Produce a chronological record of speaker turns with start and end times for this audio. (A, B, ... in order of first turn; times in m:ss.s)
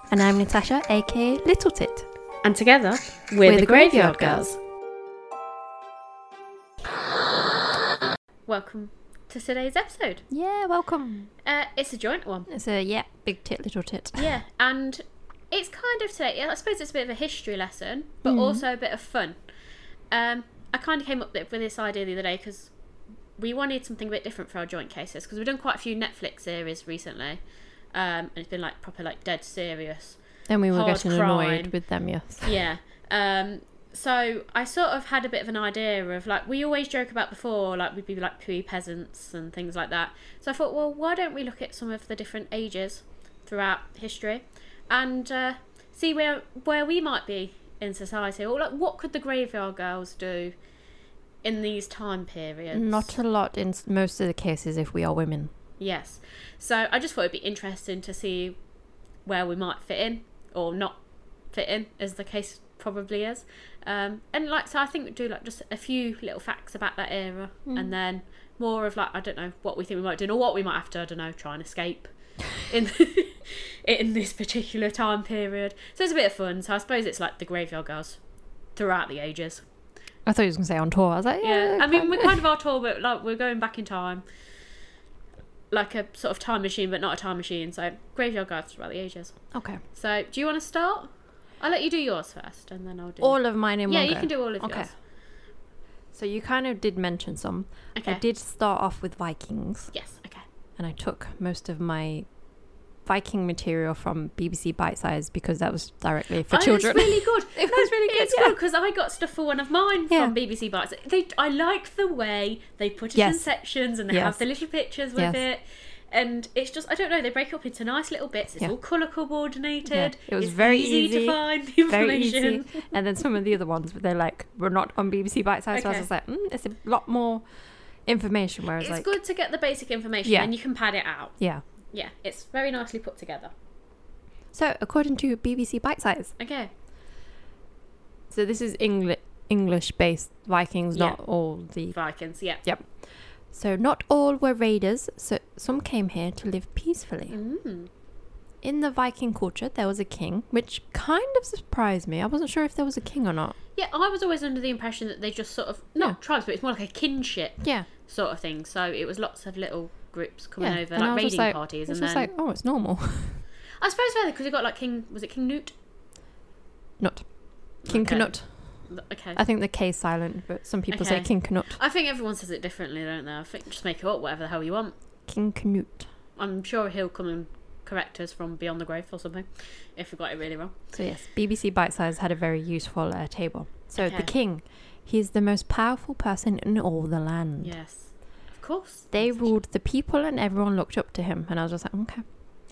0:00.1-0:02.1 A
0:02.4-0:04.5 B
0:03.4-0:04.6 A
0:08.5-0:10.2 B
0:10.3-0:11.3 A
0:11.4-0:12.5 B
0:12.5-0:14.3 A
0:14.2-0:19.4 B
0:18.2-0:18.6 A
0:20.1-0:22.7 B
0:23.4-0:27.4 B
0:27.9-0:30.2 B
0:30.5-0:32.6 A
0:30.7-0:31.8 B
0:32.4-0:50.6 B
0:51.4-0:53.1 B
0:52.7-0:55.5 A
0:55.8-0:58.6 B
0:59.3-1:01.0 B
1:01.5-1:18.2 B
1:07.7-1:07.9 A
1:18.8-1:19.6 B
1:20.3-1:22.4 A
1:21.4-1:24.2 B
1:25.7-1:29.4 B
1:29.5-1:29.8 A
1:29.9-1:34.9 B
1:33.2-1:34.9 A
1:36.1-1:39.9 A
1:38.0-1:38.2 B
1:39.9-1:40.4 B
1:40.8-1:42.3 A
1:43.1-1:48.6 A
1:46.5-2:02.9 B
1:53.2-1:53.5 A
1:54.1-1:54.4 A
1:55.2-1:55.4 A
1:59.9-2:07.5 A
2:05.7-2:06.1 B
2:08.1-2:09.1 A
2:08.8-2:11.4 B
2:10.2-2:10.5 A
2:11.4-2:11.6 A
2:11.9-2:13.5 B
2:14.5-2:16.3 A
2:16.4-2:16.7 B
2:18.3-2:22.0 A
2:21.9-2:22.6 B
2:22.6-2:27.4 A
2:27.3-2:27.9 B
2:28.6-2:33.6 A
2:33.8-2:42.3 B
2:37.6-2:37.9 A
2:40.6-2:43.4 A
2:43.8-2:45.7 B
2:47.0-2:47.3 A
2:47.8-2:51.8 A
2:47.8-2:49.4 B
2:50.9-2:55.0 B
2:55.3-2:56.1 A
2:56.4-3:00.8 B
3:00.9-3:07.7 A
3:04.0-3:04.3 B
3:07.6-3:09.6 B
3:09.1-3:12.2 A